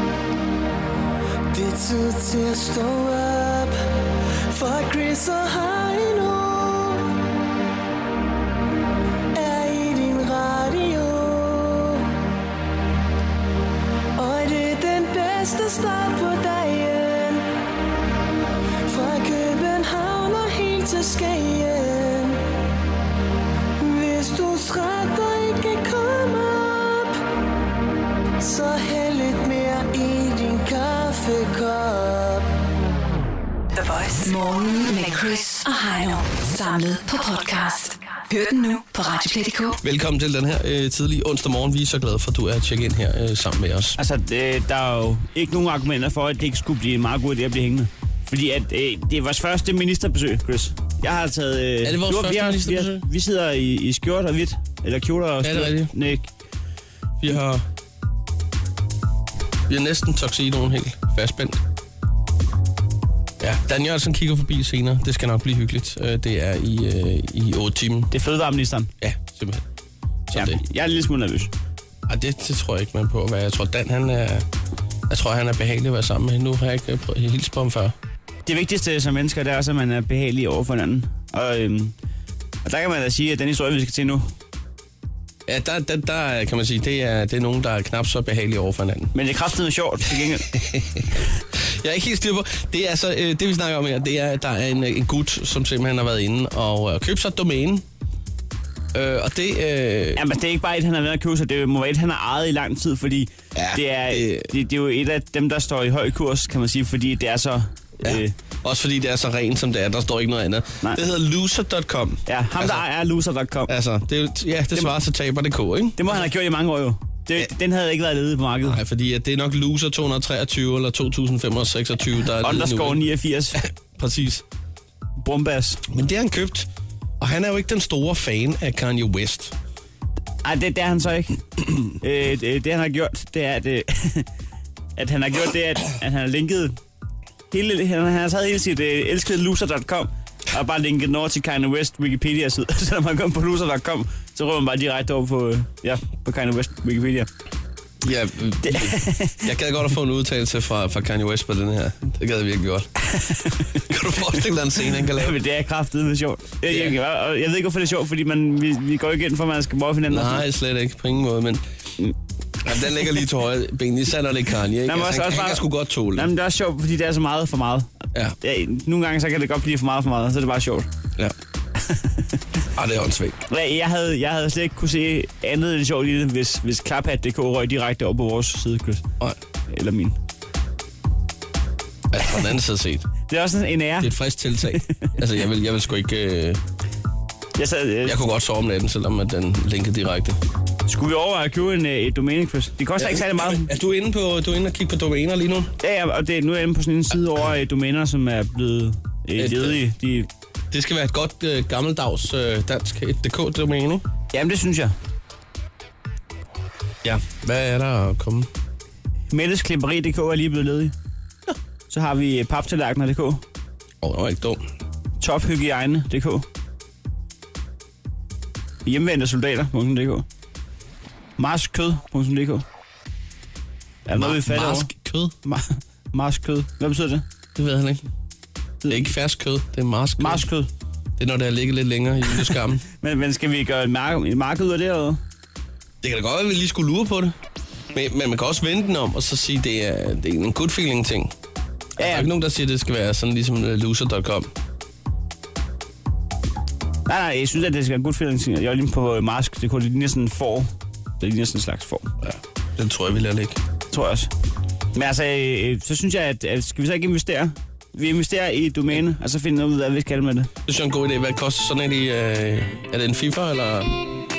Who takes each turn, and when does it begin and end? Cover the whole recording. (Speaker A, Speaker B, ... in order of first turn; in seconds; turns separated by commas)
Speaker A: 1.5-3.8, Speaker A: 4.5-7.1, Speaker A: 9.3-12.0, Speaker A: 14.2-17.4, Speaker A: 18.9-22.4, Speaker A: 23.8-27.2, Speaker A: 28.4-32.5, Speaker B: 33.7-39.8, Speaker C: 39.8-44.0, Speaker D: 44.0-56.3, Speaker C: 51.8-53.0, Speaker C: 55.4-55.9, Speaker C: 57.2-57.6, Speaker C: 59.7-61.6, Speaker C: 63.4-68.1, Speaker D: 68.1-68.9, Speaker C: 69.0-69.6, Speaker C: 70.3-70.6, Speaker D: 70.3-71.5, Speaker C: 72.1-74.5, Speaker C: 75.1-77.9, Speaker D: 78.5-81.9, Speaker D: 82.6-84.3, Speaker C: 85.5-89.1, Speaker D: 89.1-90.5, Speaker C: 90.5-97.8, Speaker C: 98.9-100.2, Speaker D: 100.2-108.3, Speaker C: 103.5-104.5, Speaker C: 108.0-112.8, Speaker D: 112.3-113.7, Speaker C: 113.7-116.2, Speaker D: 116.0-118.8, Speaker C: 118.6-123.0, Speaker D: 122.4-123.6, Speaker C: 123.6-124.4, Speaker D: 125.2-125.8, Speaker C: 125.9-126.7, Speaker C: 127.2-129.5, Speaker D: 130.4-134.3, Speaker D: 135.0-136.8, Speaker D: 137.5-147.3, Speaker C: 148.0-152.9, Speaker D: 148.6-149.4, Speaker D: 153.1-153.8, Speaker C: 153.8-155.4, Speaker D: 155.1-160.4, Speaker C: 156.7-157.0, Speaker C: 160.1-161.6, Speaker C: 162.6-166.3, Speaker D: 164.9-170.9, Speaker D: 171.8-172.4, Speaker C: 172.7-173.4, Speaker D: 173.5-179.0, Speaker D: 179.7-180.2, Speaker C: 182.1-183.1, Speaker D: 183.3-184.1, Speaker C: 184.0-186.6, Speaker D: 184.8-185.1, Speaker D: 187.6-188.2, Speaker C: 188.0-190.4, Speaker D: 190.9-193.7, Speaker C: 193.0-195.7, Speaker D: 195.8-200.3, Speaker C: 199.4-199.8, Speaker C: 200.7-204.0, Speaker D: 204.3-204.9, Speaker C: 207.0-208.5, Speaker D: 209.3-210.9, Speaker D: 211.9-213.4, Speaker C: 214.0-214.6, Speaker D: 215.2-216.4, Speaker D: 218.8-220.2, Speaker D: 221.4-222.6, Speaker D: 224.1-224.9, Speaker C: 224.1-225.3, Speaker D: 225.4-227.2, Speaker C: 227.6-228.1, Speaker D: 228.8-229.1, Speaker C: 228.9-230.5, Speaker D: 230.2-230.7, Speaker C: 231.2-232.8, Speaker D: 232.9-235.2, Speaker C: 236.0-237.3, Speaker C: 237.9-241.3, Speaker D: 242.0-242.3, Speaker C: 242.0-244.5, Speaker D: 247.1-252.1, Speaker C: 252.2-253.6, Speaker D: 253.9-254.3, Speaker D: 254.9-260.5, Speaker C: 260.6-264.0